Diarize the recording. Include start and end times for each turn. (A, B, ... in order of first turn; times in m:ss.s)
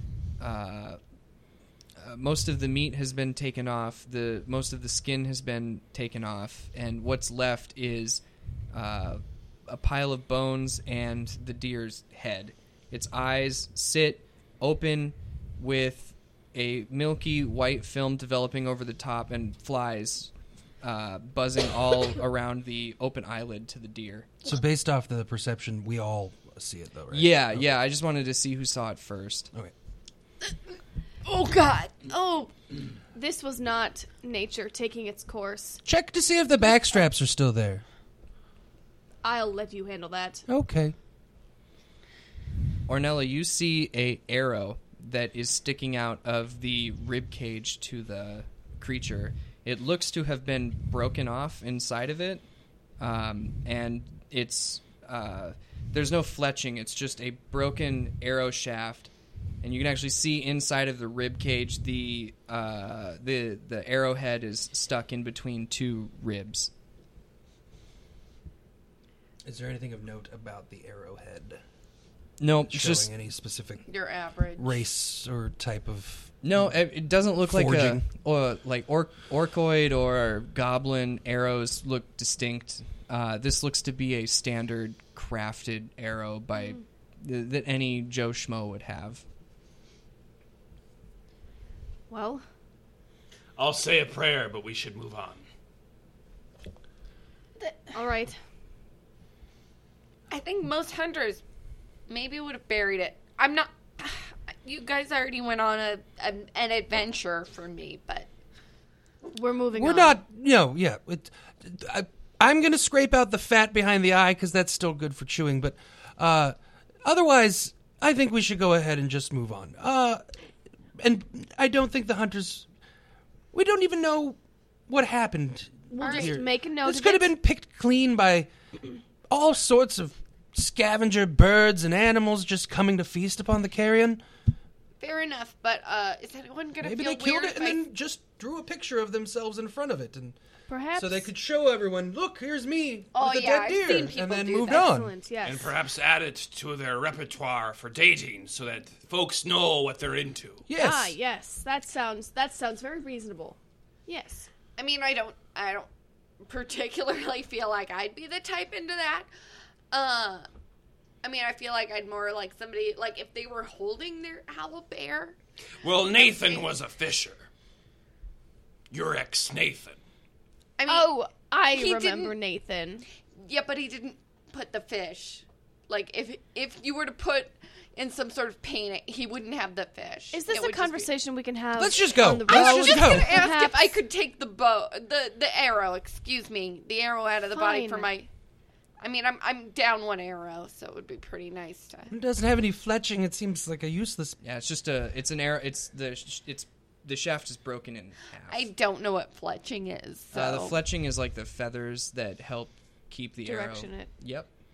0:00.4-0:01.0 A
0:02.0-0:08.2 A
0:08.7-0:20.3 A
0:20.8-0:24.4 A
0:24.4-0:27.6 B
0:27.1-0:29.5 A
0:31.2-0:32.5 C
0:33.1-0:35.8 D
0:35.8-0:37.8 B
0:39.2-0:40.4 D
0:40.5-0:40.9 B
0:42.9-0:52.4 A
0:53.0-0:59.1 A
0:59.6-1:06.7 A
1:09.4-1:11.6 B
1:12.4-1:13.1 A
1:12.7-1:13.8 B
1:13.9-1:14.7 C
1:14.6-1:16.7 B
1:16.4-1:29.2 A
1:17.4-1:18.0 B
1:26.5-1:26.8 D
1:32.1-1:32.4 D
1:33.6-1:35.5 E
1:37.6-1:38.4 D
1:40.3-1:41.4 C
1:42.1-1:48.3 C
1:49.3-1:50.2 D
1:49.7-2:00.2 B
2:01.0-2:02.7 B
2:03.5-2:08.5 B
2:05.9-2:07.3 D
2:06.0-2:06.3 C
2:09.3-2:14.2 B
2:15.0-2:17.8 C
2:16.8-2:20.4 B
2:20.7-2:21.3 D
2:21.0-2:25.1 B
2:23.1-2:24.9 C
2:24.6-2:25.7 D
2:25.4-2:30.6 E
2:30.7-2:31.1 B
2:30.7-2:34.5 D
2:34.8-2:35.9 C
2:36.4-2:39.3 C
2:39.9-2:40.5 C
2:41.2-2:45.4 C
2:45.8-2:47.5 E
2:46.2-2:46.6 C
2:48.9-2:50.0 E
2:50.8-2:51.1 C
2:50.8-2:53.0 D
2:51.7-2:52.3 C
2:53.4-3:01.1 C
3:00.3-3:04.0 D
3:01.8-3:03.4 B
3:02.4-3:08.3 C
3:07.5-3:08.1 D
3:09.0-3:12.1 C
3:12.1-3:14.4 B
3:14.4-3:18.7 A
3:18.5-3:20.8 C
3:20.3-3:24.5 A
3:23.4-3:24.1 D